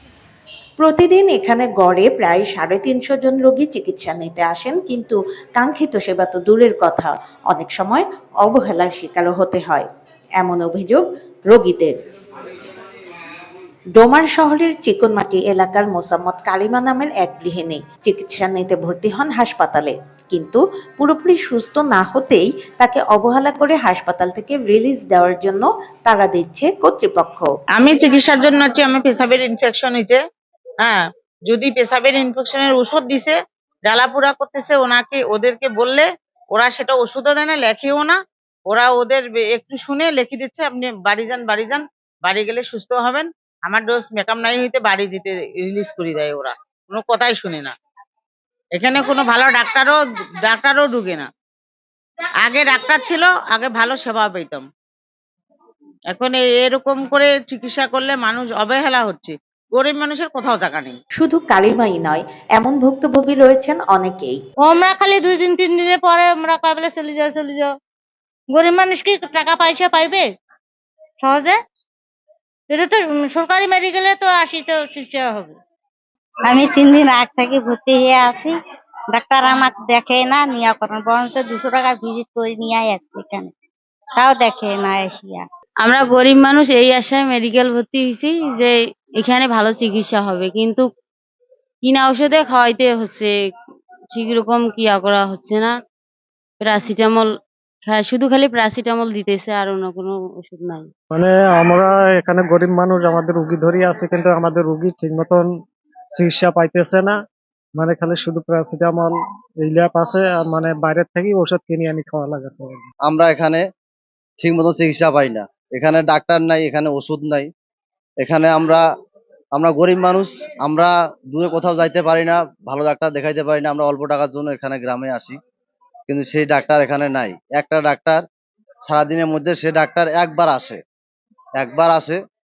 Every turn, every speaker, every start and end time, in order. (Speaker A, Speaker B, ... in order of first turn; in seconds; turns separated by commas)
Speaker A: 0.8-9.9, Speaker A: 10.4-12.0, Speaker A: 13.9-27.5, Speaker B: 27.8-30.2, Speaker B: 30.8-33.3, Speaker B: 33.9-38.2, Speaker B: 38.7-47.7, Speaker B: 48.8-51.3, Speaker B: 52.5-54.6, Speaker B: 56.1-61.0, Speaker A: 61.2-64.4, Speaker C: 64.6-67.7, Speaker C: 68.5-70.2, Speaker C: 71.2-71.5, Speaker C: 72.7-75.5, Speaker D: 76.5-78.5, Speaker D: 79.1-83.5, Speaker D: 84.2-85.4, Speaker E: 85.9-88.3, Speaker E: 89.3-90.8, Speaker E: 91.9-93.2, Speaker E: 94.4-95.7, Speaker E: 96.7-97.2, Speaker E: 98.0-100.8, Speaker F: 101.1-105.5, Speaker F: 106.1-107.2, Speaker F: 107.8-112.8, Speaker G: 113.1-113.6, Speaker G: 114.4-117.5, Speaker G: 118.2-118.8, Speaker G: 119.5-125.4, Speaker G: 126.1-128.2, Speaker G: 128.9-130.8, Speaker G: 131.6-132.2